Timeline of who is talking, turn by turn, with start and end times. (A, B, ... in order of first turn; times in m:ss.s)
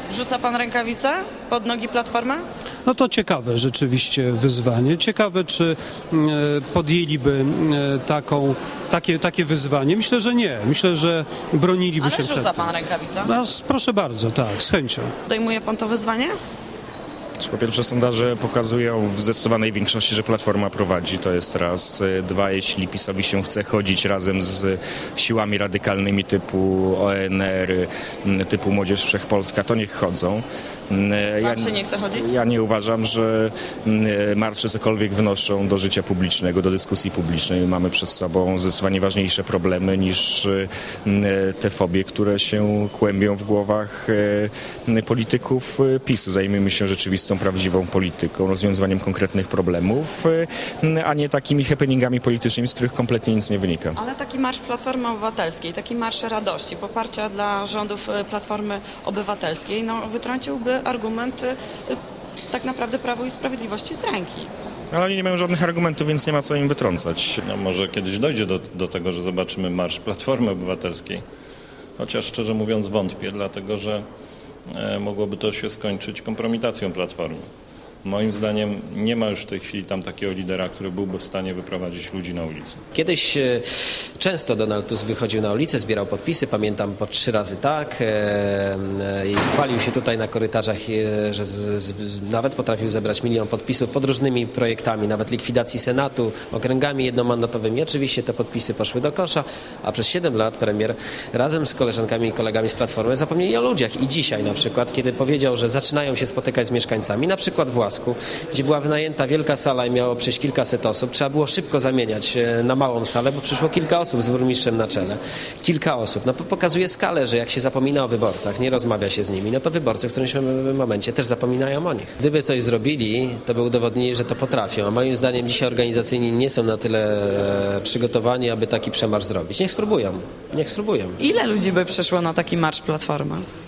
0:00.1-0:02.4 A
0:02.8-0:12.7 B
0:12.0-0:13.3 A
0:13.2-0:15.1 B
0:15.2-0:16.3 A
0:17.4-0:54.0 C
0:31.4-0:32.3 A
0:54.0-1:02.0 A
1:02.5-1:04.5 A
1:04.9-1:07.4 C
1:07.4-1:11.2 D
1:12.0-1:14.0 D
1:14.7-1:17.4 D
1:18.0-1:22.8 D
1:22.9-1:23.7 E
1:24.2-2:11.2 E
2:11.2-2:13.4 A